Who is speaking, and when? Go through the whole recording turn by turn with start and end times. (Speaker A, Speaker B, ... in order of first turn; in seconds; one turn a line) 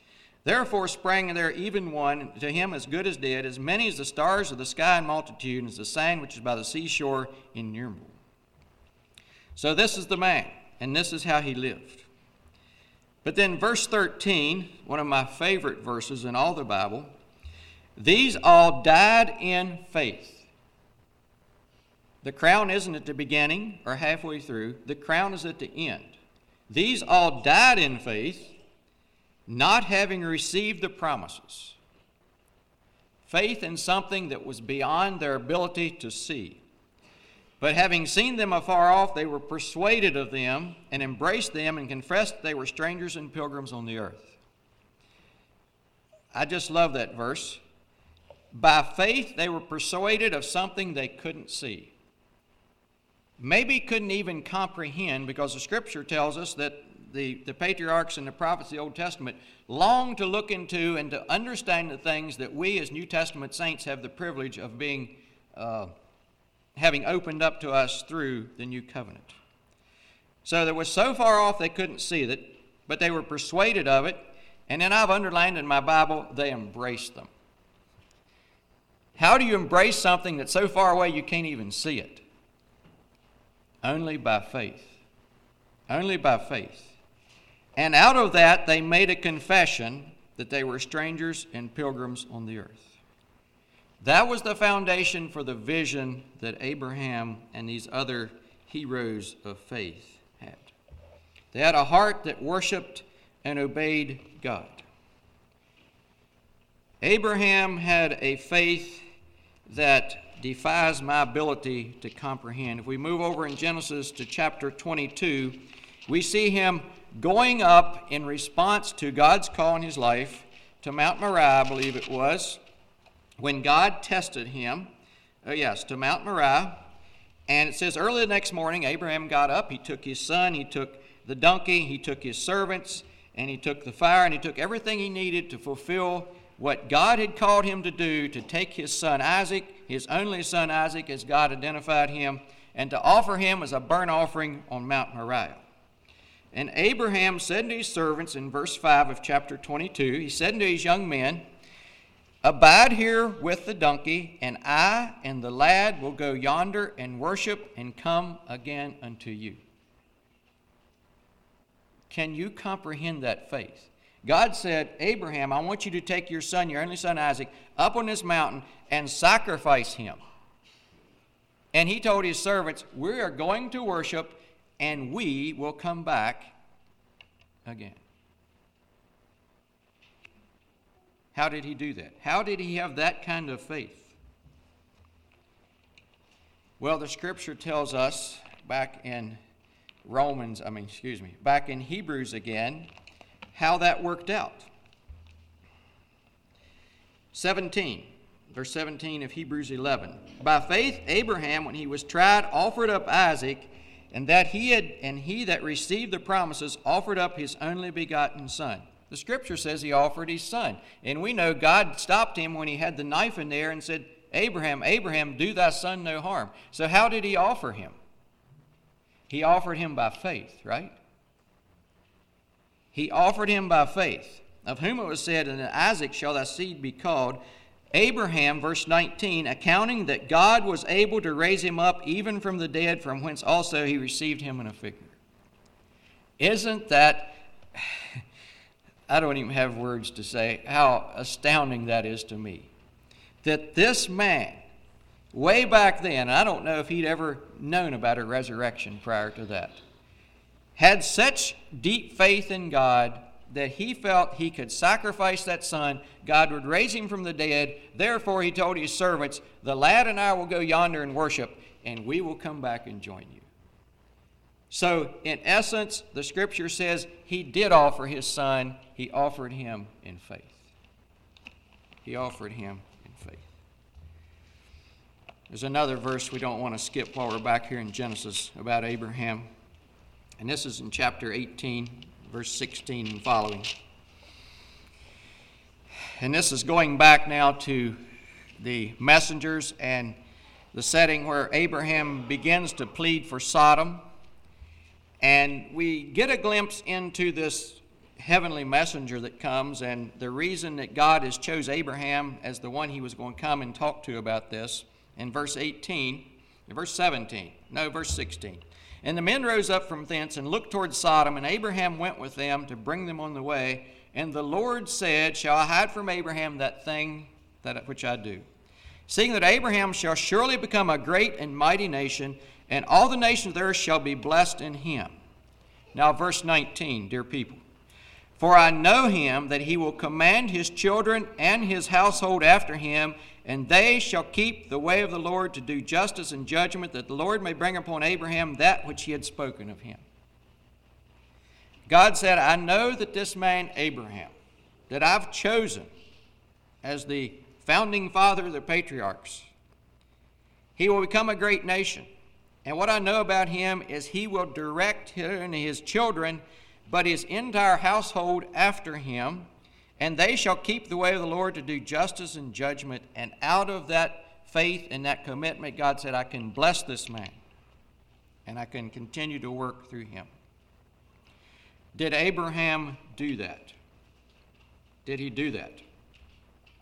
Speaker A: 0.5-8.2
Speaker A: 9.6-12.1
Speaker A: 13.2-17.1
Speaker A: 18.0-20.5
Speaker A: 22.2-26.2
Speaker A: 26.7-28.6
Speaker A: 29.5-31.8
Speaker A: 33.3-36.6
Speaker A: 37.6-44.4
Speaker A: 46.3-47.6
Speaker A: 48.5-51.9
Speaker A: 53.4-65.9
Speaker A: 66.8-69.3
Speaker A: 70.5-77.3
Speaker A: 79.2-82.2
Speaker A: 83.8-85.0
Speaker A: 85.9-87.0
Speaker A: 87.8-93.0
Speaker A: 94.0-100.7
Speaker A: 101.5-104.8
Speaker A: 107.0-109.0
Speaker A: 109.7-122.6
Speaker A: 123.4-124.9
Speaker A: 125.4-126.8
Speaker A: 127.5-145.6
Speaker A: 146.5-151.4
Speaker A: 152.4-159.6
Speaker A: 162.1-170.2
Speaker A: 171.7-176.5
Speaker A: 177.7-178.0
Speaker A: 181.3-184.2
Speaker A: 186.8-189.4
Speaker A: 190.1-192.9
Speaker A: 193.5-194.7
Speaker A: 197.3-218.0
Speaker A: 219.3-220.9
Speaker A: 222.9-227.4
Speaker A: 227.9-235.2
Speaker A: 236.4-237.9
Speaker A: 239.1-242.7
Speaker A: 243.4-244.6
Speaker A: 245.3-249.8
Speaker A: 250.8-263.5
Speaker A: 264.7-270.7
Speaker A: 272.0-273.5
Speaker A: 275.5-279.5
Speaker A: 280.4-283.7
Speaker A: 286.2-288.0
Speaker A: 288.6-290.1
Speaker A: 290.7-294.0
Speaker A: 295.2-318.4
Speaker A: 319.1-325.1
Speaker A: 325.9-327.6
Speaker A: 328.4-340.0
Speaker A: 341.9-344.3
Speaker A: 344.9-345.9
Speaker A: 346.8-349.5
Speaker A: 350.8-352.1
Speaker A: 352.6-359.5
Speaker A: 360.0-367.4
Speaker A: 368.5-370.3
Speaker A: 371.9-373.8
Speaker A: 375.1-375.8